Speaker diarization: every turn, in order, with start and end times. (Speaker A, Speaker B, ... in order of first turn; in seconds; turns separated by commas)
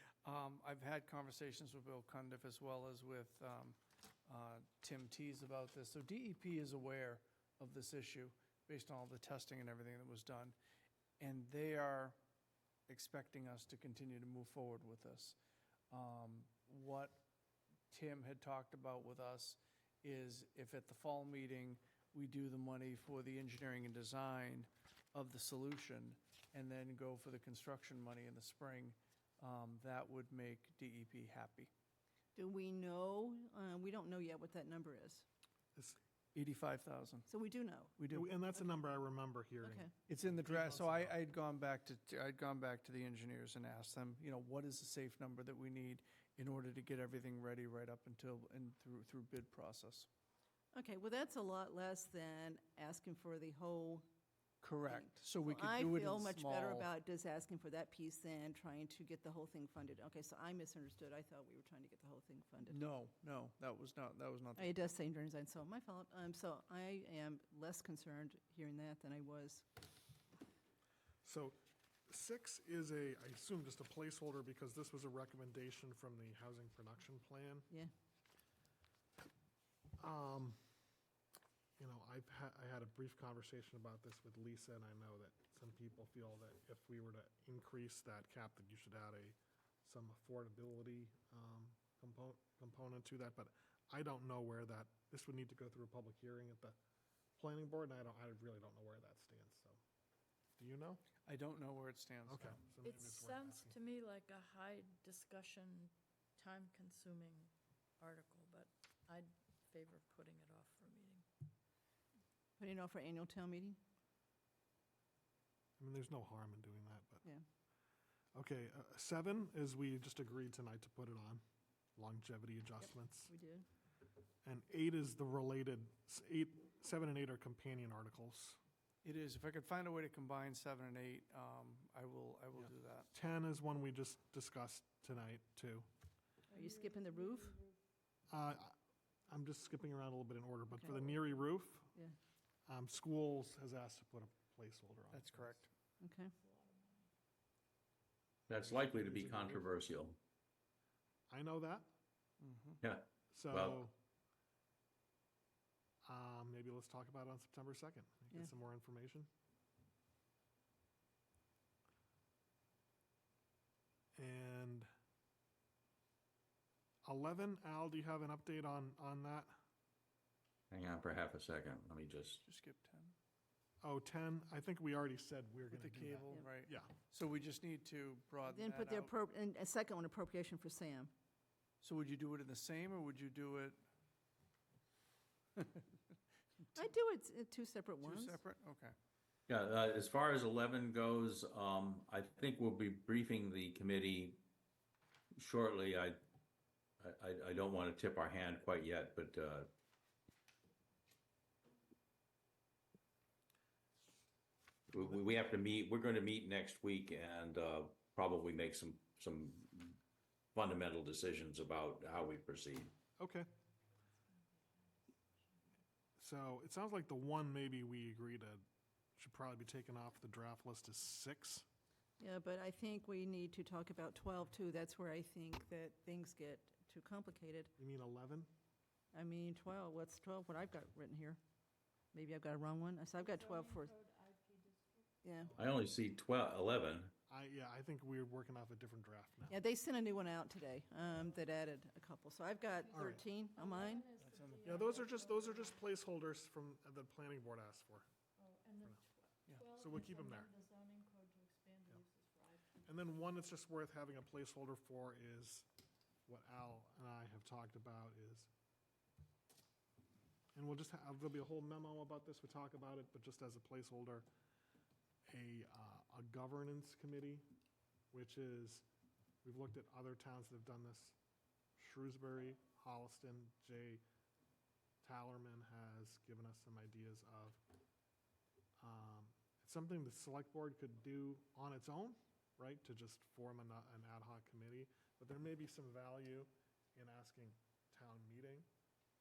Speaker A: 0.2-10.5, Speaker A: 11.2-12.2, Speaker A: 12.9-15.3, Speaker A: 15.9-17.2, Speaker A: 17.9-31.7, Speaker B: 32.3-35.2, Speaker A: 36.3-37.3, Speaker B: 37.3-38.0, Speaker A: 38.0-38.3, Speaker C: 38.1-41.2, Speaker B: 39.6-39.9, Speaker A: 40.1-50.1, Speaker B: 50.7-54.0, Speaker A: 54.6-56.9, Speaker B: 54.9-62.8, Speaker A: 62.7-64.9, Speaker B: 64.5-69.7, Speaker C: 71.2-71.6, Speaker C: 72.1-77.7, Speaker C: 80.0-80.5, Speaker C: 81.8-96.7, Speaker C: 97.4-99.8, Speaker C: 100.6-101.0, Speaker A: 101.2-102.6, Speaker C: 102.2-103.8, Speaker D: 102.8-111.2, Speaker B: 112.6-113.8, Speaker C: 115.8-117.2, Speaker C: 118.3-121.4, Speaker C: 122.0-123.3, Speaker B: 123.3-123.7, Speaker C: 124.4-128.6, Speaker A: 129.0-133.1, Speaker C: 132.5-135.9, Speaker D: 136.5-137.8, Speaker B: 136.5-137.6, Speaker C: 138.3-138.7, Speaker C: 139.3-141.9, Speaker B: 140.8-141.1, Speaker C: 142.7-145.6, Speaker A: 145.1-145.7, Speaker B: 146.0-146.3, Speaker D: 146.3-147.1, Speaker C: 148.5-149.7, Speaker E: 148.5-150.2, Speaker C: 151.3-151.9, Speaker A: 152.4-152.8, Speaker E: 152.8-153.8, Speaker C: 153.3-153.9, Speaker C: 156.0-159.3, Speaker C: 164.1-164.9, Speaker C: 167.0-169.5, Speaker E: 170.7-172.4, Speaker A: 172.4-173.1, Speaker C: 173.8-176.9, Speaker A: 175.7-179.1, Speaker B: 178.4-181.1, Speaker A: 181.8-183.8, Speaker B: 186.7-188.4, Speaker A: 188.0-188.9, Speaker E: 189.5-194.4, Speaker E: 195.3-196.2, Speaker E: 197.0-199.7, Speaker E: 204.9-210.0, Speaker C: 204.9-205.2, Speaker E: 210.5-212.9, Speaker C: 213.2-213.5, Speaker D: 214.7-215.2, Speaker C: 216.2-218.6, Speaker C: 219.2-221.6, Speaker B: 222.2-227.7, Speaker C: 227.8-228.5, Speaker B: 229.1-231.4, Speaker B: 232.1-233.9, Speaker D: 233.2-235.1, Speaker B: 235.2-235.6, Speaker E: 235.6-237.1, Speaker C: 237.3-239.6, Speaker B: 239.5-244.1, Speaker D: 242.9-245.8, Speaker C: 242.9-243.3, Speaker A: 244.2-245.0, Speaker C: 244.6-248.1, Speaker D: 248.4-252.9, Speaker C: 249.6-250.5, Speaker C: 252.8-255.7, Speaker C: 256.3-258.5, Speaker C: 260.5-264.2, Speaker C: 265.3-267.4, Speaker C: 268.1-268.8, Speaker C: 269.4-271.1, Speaker C: 271.8-274.0, Speaker C: 275.0-277.6, Speaker C: 278.8-288.7